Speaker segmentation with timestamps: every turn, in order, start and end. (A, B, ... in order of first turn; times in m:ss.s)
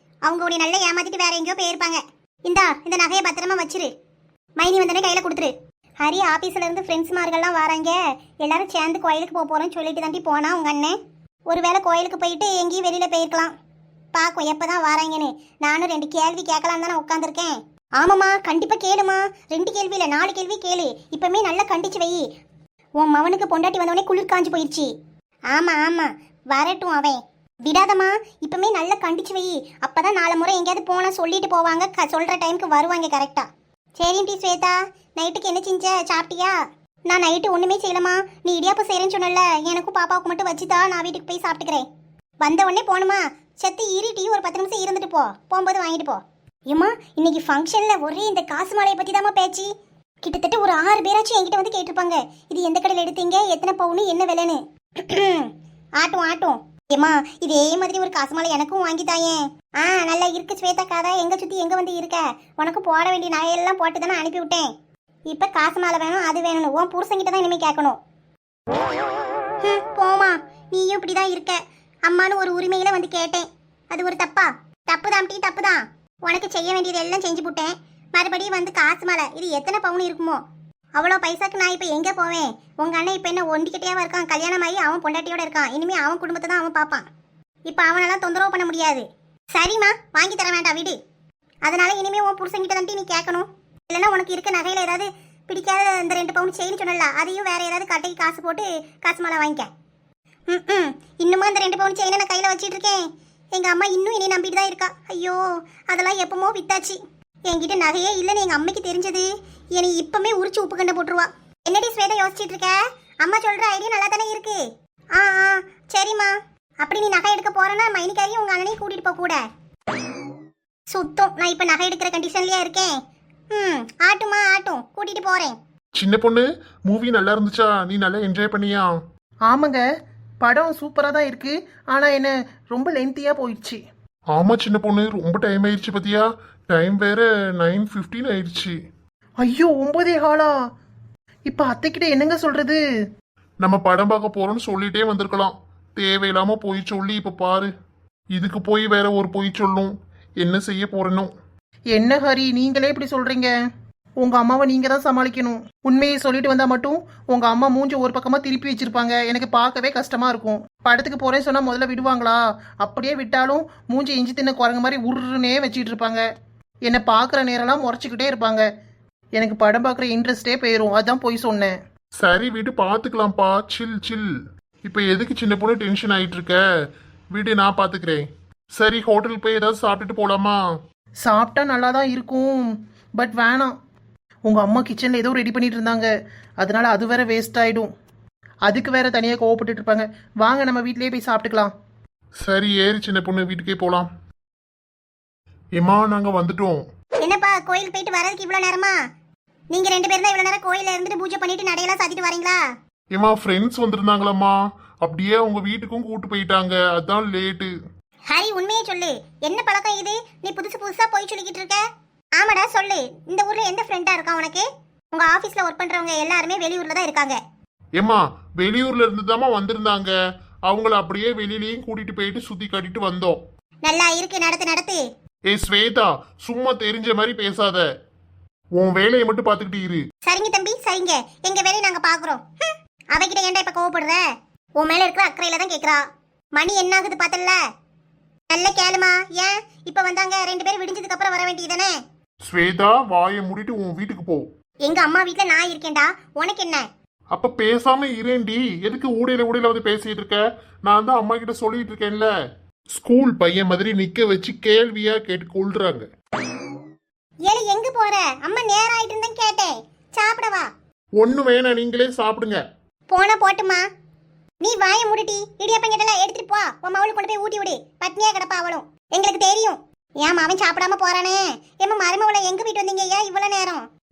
0:00.2-0:03.9 A
0:04.6-0:10.9 A
0:11.5-0:13.5 A
0:14.1-0:22.2 A
0:23.0-0:24.9 A
0:25.5-0:33.5 A
0:34.0-0:36.5 A
0:37.1-0:41.8 A
0:42.4-0:49.7 A
0:50.2-1:04.7 A
1:05.3-1:08.0 A
1:09.6-1:20.4 A
1:21.0-1:27.0 A
1:27.7-1:31.0 A
1:31.6-1:39.7 A
1:40.5-1:54.6 A
1:55.1-1:59.4 A
2:00.9-2:03.0 A
2:03.5-2:05.6 A
2:06.0-2:09.0 B
2:09.5-2:09.8 C
2:10.4-2:13.8 C
2:14.3-2:18.8 B
2:19.4-2:20.5 C
2:21.5-2:22.8 C
2:23.6-2:27.7 B
2:28.3-2:31.3 B
2:31.9-2:33.5 C
2:34.2-2:46.2 C
2:46.9-2:48.6 C
2:49.4-2:51.7 C
2:52.2-2:54.2 B
2:54.8-2:56.6 B
2:57.3-3:00.6 B
3:01.2-3:02.6 C
3:03.2-3:03.7 C
3:04.5-3:06.1 C
3:06.6-3:07.9 C
3:08.7-3:11.7 C
3:12.4-3:14.1 B
3:15.8-3:16.8 B
3:17.2-3:18.9 A
3:19.7-3:22.6 A
3:23.1-3:27.7 B
3:28.3-3:31.8 A
3:32.4-3:37.4 A
3:38.0-3:40.1 B
3:40.7-3:43.4 B
3:43.8-3:45.0 A
3:45.5-3:47.8 B
3:48.8-3:50.0 B
3:50.2-3:54.2 A
3:54.8-3:56.0 A
3:56.6-3:57.6 A
3:58.5-4:02.0 A
4:02.5-4:04.5 B
4:04.8-4:06.8 A
4:07.3-4:12.3 B
4:12.9-4:16.1 B
4:17.4-4:20.7 A
4:21.2-4:22.6 B
4:23.1-4:23.8 A
4:24.6-4:33.8 A